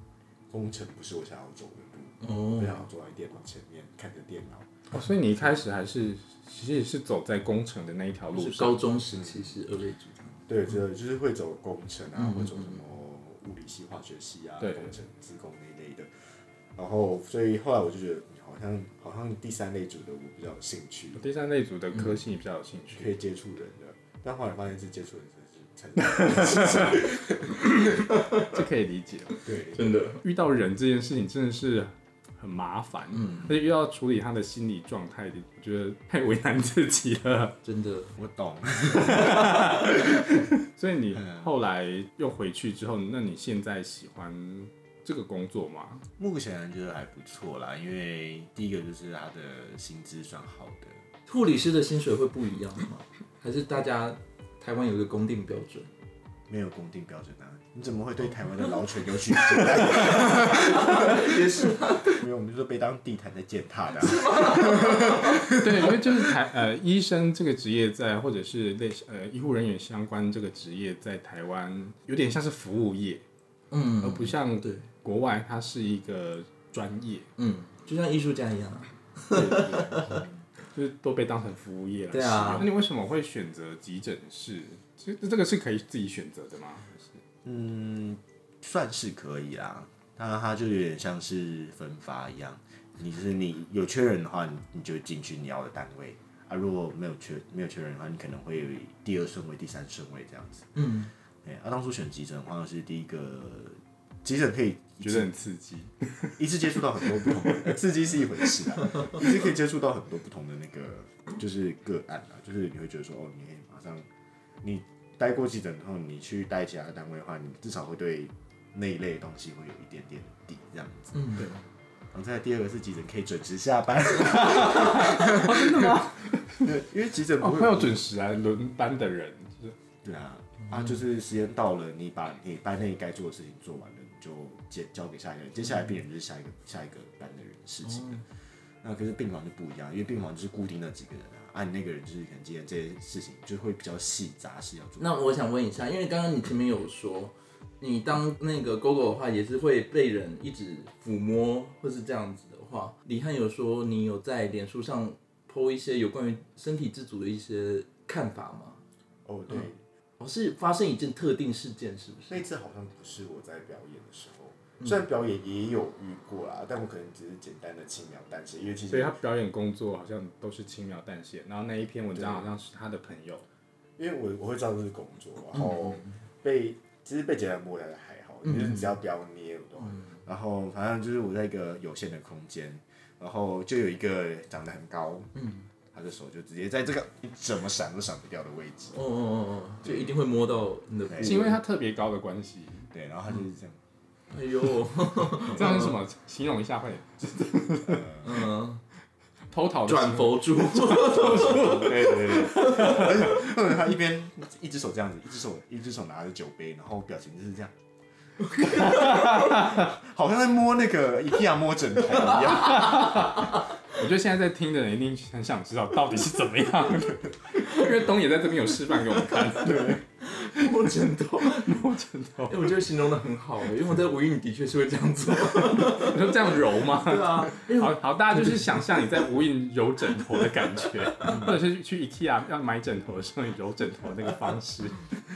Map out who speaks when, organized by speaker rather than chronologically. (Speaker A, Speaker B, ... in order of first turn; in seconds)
Speaker A: 0.5-4.7, 10.5-21.2, 22.9-28.1, 29.4-30.1, 38.1-40.2, 46.2-51.0, 56.5-66.3, 87.4-100.8, 101.4-105.3, 106.4-114.1, 114.6-121.4, 122.1-128.1, 130.0-138.3, 138.8-145.2, 159.2-159.8, 162.3-169.2, 172.1-172.5, 174.0-185.3, 185.9-188.9, 189.8-190.1, 191.1-191.6, 192.9-193.8, 197.8-198.4, 201.4-207.7, 208.6-213.3, 219.6-220.0, 231.3-231.6
Speaker B: 2.2-2.8, 8.3-10.4, 12.2-12.7, 29.7-30.2, 37.6-38.1, 51.3-55.9, 59.7-62.2, 64.0-65.4, 73.7-74.9, 77.4-80.2, 82.1-82.7, 100.8-101.1, 121.1-121.6, 137.9-138.2, 145.0-158.8, 160.2-162.4, 175.7-176.1, 178.4-178.8, 185.4-185.7, 188.9-191.6, 194.3-195.9, 198.2-198.8, 199.9-203.1, 208.6-209.0, 220.2-221.8, 222.5-229.1, 231.2-231.5
Speaker C: 4.9-8.8, 14.6-15.0, 21.2-23.1, 26.2-27.1, 28.3-29.5, 30.1-37.6, 38.9-46.0, 65.4-73.2, 74.0-77.3, 79.3-87.2, 105.0-106.4, 107.0-107.8, 124.3-126.8, 127.4-129.8, 168.9-173.4, 191.2-192.9, 195.4-198.2, 199.5-203.4, 208.6-209.9, 212.6-220.0, 221.4-222.7, 225.8-235.1